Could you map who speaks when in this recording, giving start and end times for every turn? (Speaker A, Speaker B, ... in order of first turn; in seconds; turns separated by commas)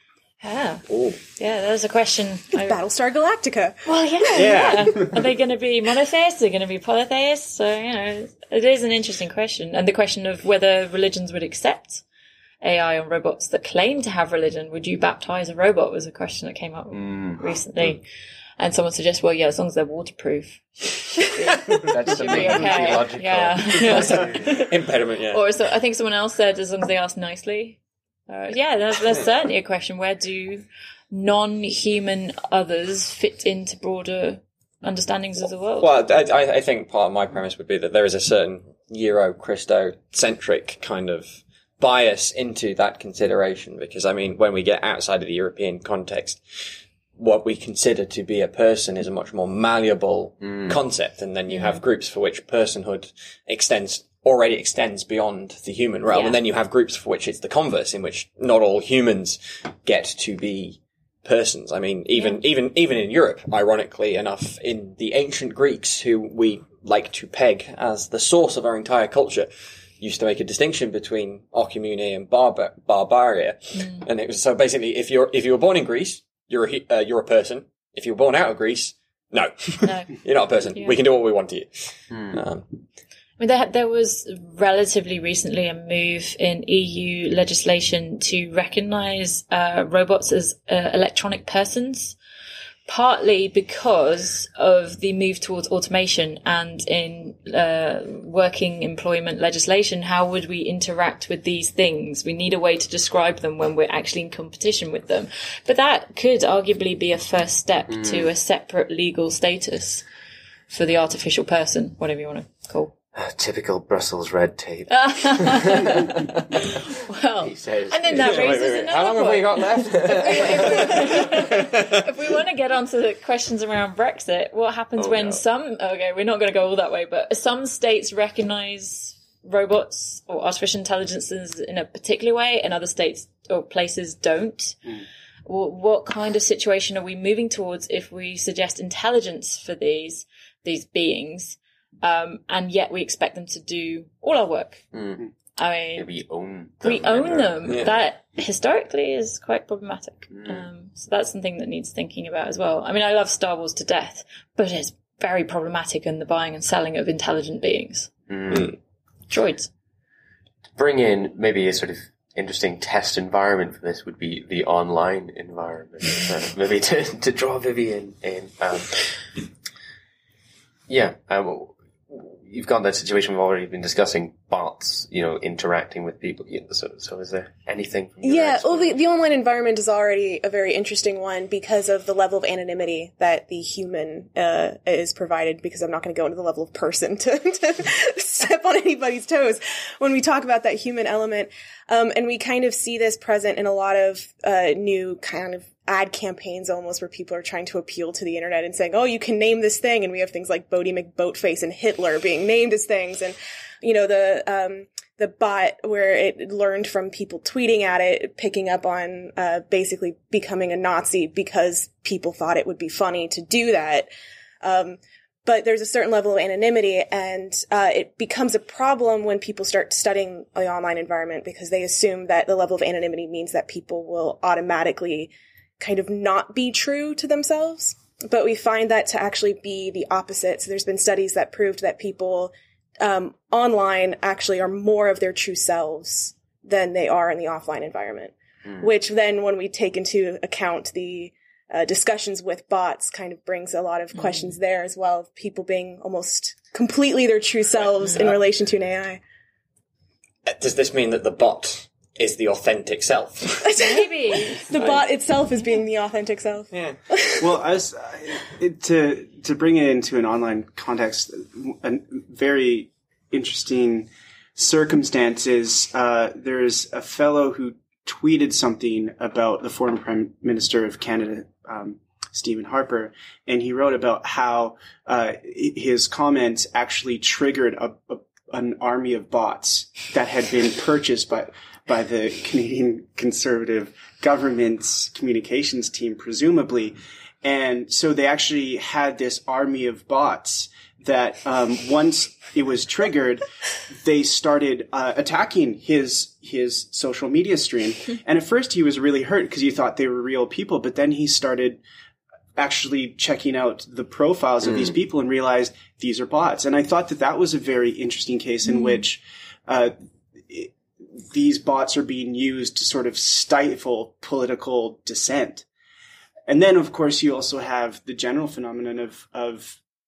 Speaker A: 0.4-2.8, Speaker B: 0.9-1.1, Speaker C: 2.5-4.9, Speaker A: 3.9-12.0, Speaker D: 4.3-5.2, Speaker A: 12.6-18.0, Speaker E: 16.9-17.9, Speaker A: 18.6-24.7, Speaker E: 21.8-24.6, Speaker B: 23.9-25.4, Speaker A: 25.3-35.9, Speaker B: 35.8-82.7, Speaker A: 51.5-51.8, Speaker A: 56.1-56.4, Speaker A: 62.1-62.4, Speaker A: 73.7-74.0, Speaker A: 79.8-80.1, Speaker E: 82.1-82.4, Speaker A: 83.4-92.2, Speaker A: 92.9-110.0, Speaker E: 107.9-108.3, Speaker A: 110.7-112.9, Speaker E: 113.1-116.2, Speaker A: 114.9-134.8, Speaker E: 117.4-118.5, Speaker B: 118.1-122.0, Speaker E: 119.9-121.0, Speaker E: 125.0-125.4, Speaker A: 135.5-144.8, Speaker E: 144.9-145.2, Speaker A: 145.6-146.1, Speaker E: 145.9-147.9, Speaker A: 146.8-158.1, Speaker E: 150.3-150.7, Speaker E: 158.3-158.7, Speaker A: 159.3-159.7, Speaker E: 160.8-169.0, Speaker E: 170.9-179.0, Speaker C: 178.2-214.1, Speaker C: 214.6-249.2, Speaker A: 244.1-244.6, Speaker B: 250.4-253.6, Speaker C: 253.6-257.5, Speaker A: 253.8-254.7, Speaker B: 254.7-255.0, Speaker B: 256.7-257.0, Speaker D: 257.4-293.4, Speaker D: 294.0-301.8, Speaker D: 302.6-309.9, Speaker A: 308.6-309.0, Speaker D: 310.5-315.6, Speaker D: 316.5-319.8